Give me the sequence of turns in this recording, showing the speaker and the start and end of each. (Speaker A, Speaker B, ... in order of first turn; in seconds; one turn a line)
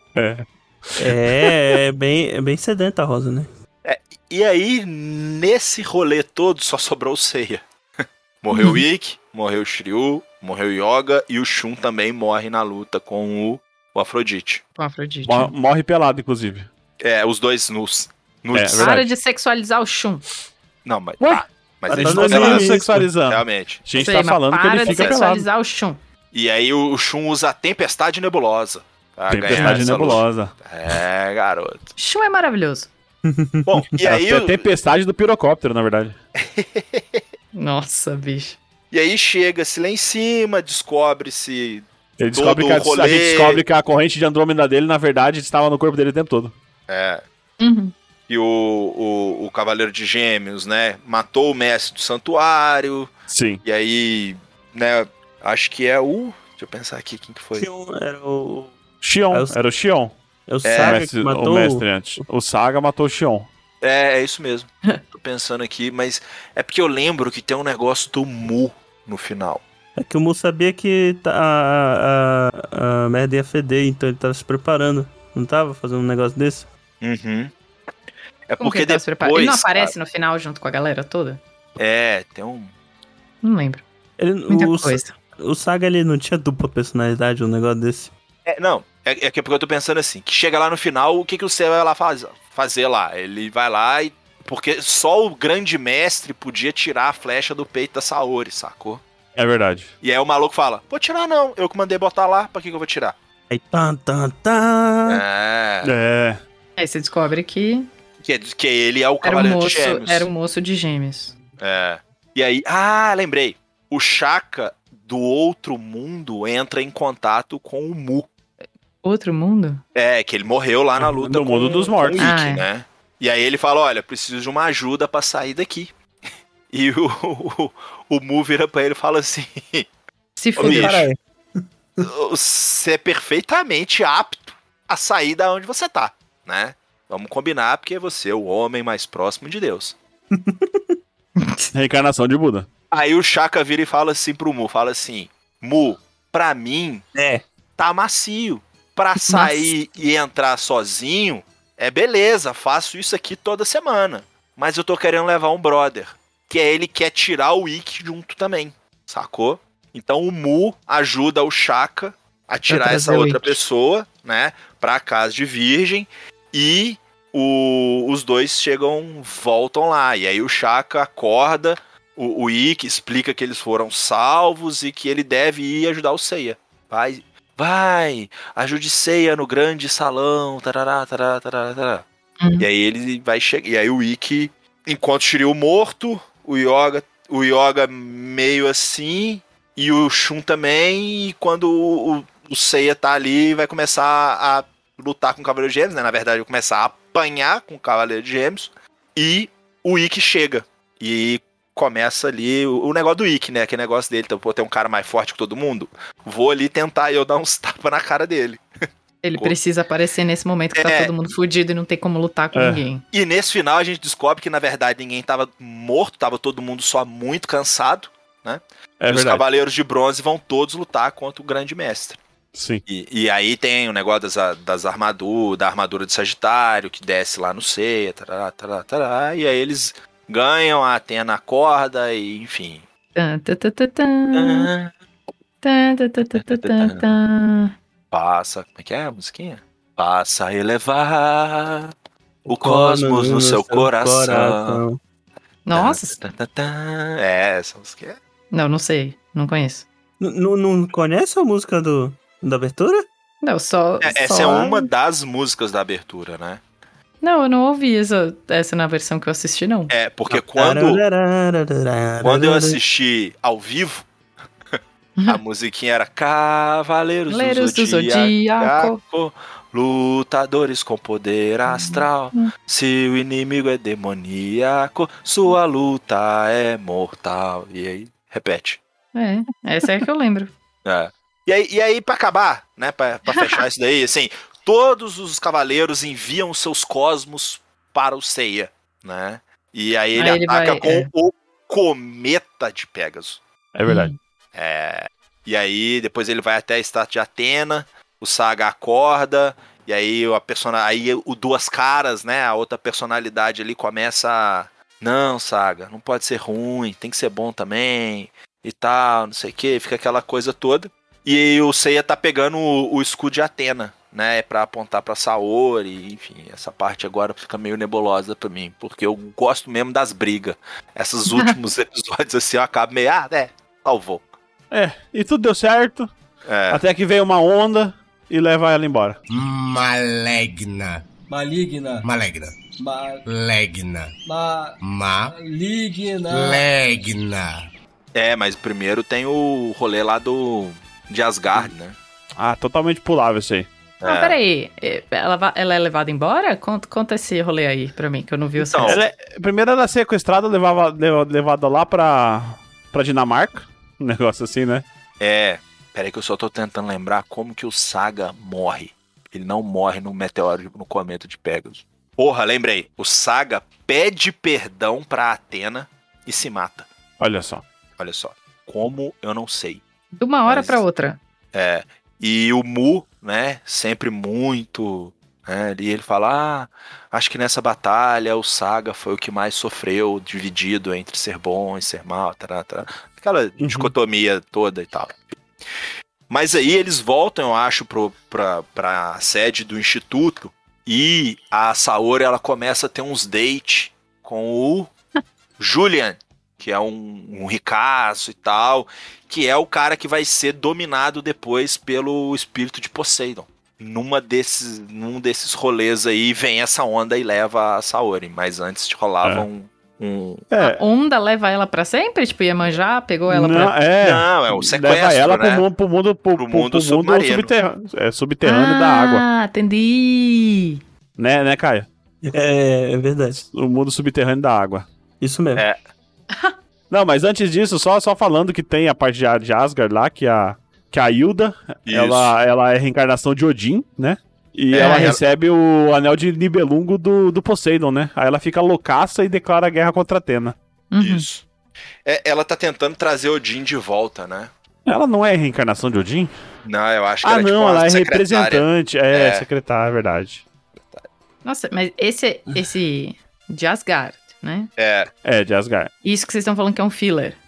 Speaker A: 0.2-1.5
Speaker B: 1.0-3.5
Speaker C: 3.8-7.6
Speaker C: 8.4-14.6
Speaker D: 8.5-8.8
Speaker D: 14.8-15.5
Speaker A: 15.3-16.7
Speaker C: 17.0-18.9
Speaker A: 18.5-19.0
Speaker D: 18.8-20.2
Speaker C: 20.9-25.2
Speaker A: 21.2-25.4
Speaker B: 21.9-23.1
Speaker D: 24.0-26.0
Speaker C: 26.3-31.9
Speaker A: 29.3-30.5
Speaker B: 29.6-29.9
Speaker D: 32.0-32.9
Speaker B: 33.3-33.7
Speaker C: 33.6-34.7
Speaker A: 34.0-36.2
Speaker C: 36.4-37.2
Speaker D: 37.5-38.6
Speaker C: 38.9-43.6
Speaker A: 42.2-46.5
Speaker C: 46.9-47.2
Speaker D: 47.6-47.9
Speaker C: 48.3-53.1
Speaker A: 53.3-53.6
Speaker C: 53.6-57.7
Speaker B: 57.5-58.8
Speaker A: 59.0-60.1
Speaker B: 59.3-59.6
Speaker B: 60.5-62.2
Speaker C: 60.6-61.0
Speaker A: 60.8-63.5
Speaker C: 63.8-69.6
Speaker B: 70.0-76.7
Speaker C: 77.0-77.5
Speaker C: 78.5-79.9
Speaker D: 78.6-81.4
Speaker C: 81.8-82.7
Speaker D: 83.4-83.8
Speaker B: 84.2-88.1
Speaker D: 84.5-85.1
Speaker C: 88.5-99.0
Speaker A: 99.3-99.9
Speaker C: 100.0-103.2
Speaker B: 103.5-105.2
Speaker C: 105.1-105.9
Speaker A: 105.8-106.4
Speaker D: 106.8-107.9
Speaker C: 108.2-110.3
Speaker D: 109.2-111.3
Speaker C: 111.6-118.3
Speaker D: 119.0-119.8
Speaker C: 120.0-125.9
Speaker A: 121.2-122.3
Speaker B: 121.7-122.2
Speaker D: 122.2-122.7
Speaker C: 126.7-129.9
Speaker D: 130.4-131.0
Speaker C: 130.6-131.0
Speaker B: 130.6-131.2
Speaker C: 132.0-140.0
Speaker B: 140.4-140.8
Speaker D: 141.4-141.7
Speaker A: 141.7-142.7
Speaker C: 142.9-147.1
Speaker B: 147.2-147.4
Speaker C: 147.8-182.1
Speaker D: 149.3-149.7
Speaker B: 162.7-163.6
Speaker C: 182.6-208.6
Speaker D: 209.2-213.0
Speaker C: 210.7-211.1
Speaker A: 212.5-212.8
Speaker C: 213.1-222.2
Speaker A: 219.0-219.4
Speaker A: 222.5-222.8
Speaker C: 222.9-232.8
Speaker D: 233.2-234.7
Speaker C: 234.3-234.9
Speaker D: 235.6-237.7
Speaker C: 236.3-237.1
Speaker C: 238.1-241.9
Speaker C: 242.5-244.8
Speaker B: 242.5-245.0
Speaker D: 245.7-246.2
Speaker C: 245.7-248.2
Speaker D: 248.5-249.9
Speaker B: 250.2-253.1
Speaker D: 253.4-254.9
Speaker C: 254.0-256.6
Speaker D: 257.2-259.9
Speaker C: 259.9-261.0
Speaker B: 260.3-262.8
Speaker C: 262.2-264.1
Speaker C: 264.7-278.8
Speaker D: 267.3-269.0
Speaker D: 271.7-272.5
Speaker D: 279.1-280.5
Speaker C: 280.9-293.4
Speaker D: 283.3-283.6
Speaker D: 290.2-291.1
Speaker A: 293.8-294.1
Speaker D: 293.9-294.1
Speaker C: 294.5-324.2
Speaker A: 324.7-326.1
Speaker C: 326.4-326.8
Speaker A: 326.7-329.2
Speaker E: 329.3-331.1
Speaker E: 332.0-332.6
Speaker E: 333.2-334.1
Speaker E: 334.8-335.4
Speaker E: 336.3-337.7
Speaker C: 338.1-342.0
Speaker A: 342.4-343.7
Speaker C: 344.0-344.4
Speaker D: 344.1-349.0
Speaker C: 348.6-349.0
Speaker A: 348.9-354.9
Speaker C: 355.2-366.9
Speaker A: 367.2-367.6
Speaker C: 368.0-369.8
Speaker D: 370.2-371.2
Speaker C: 370.5-370.8
Speaker C: 371.5-385.2
Speaker A: 383.6-383.9
Speaker C: 386.3-394.9
Speaker C: 395.6-410.5
Speaker A: 410.5-410.8
Speaker D: 410.6-413.8
Speaker A: 413.3-419.2
Speaker C: 414.0-415.7
Speaker C: 416.4-417.5
Speaker D: 418.4-420.8
Speaker A: 421.2-421.9
Speaker B: 422.2-423.4
Speaker A: 423.4-424.9
Speaker B: 425.2-425.6
Speaker A: 426.9-440.6
Speaker C: 431.9-432.3
Speaker C: 434.7-435.2
Speaker D: 434.8-435.2
Speaker D: 440.9-441.3
Speaker C: 441.0-441.5
Speaker C: 442.1-444.5
Speaker A: 444.9-446.3
Speaker C: 446.6-449.5
Speaker A: 447.2-450.4
Speaker C: 450.8-451.1
Speaker D: 451.4-454.7
Speaker C: 454.8-455.1
Speaker A: 455.2-455.9
Speaker D: 456.0-457.4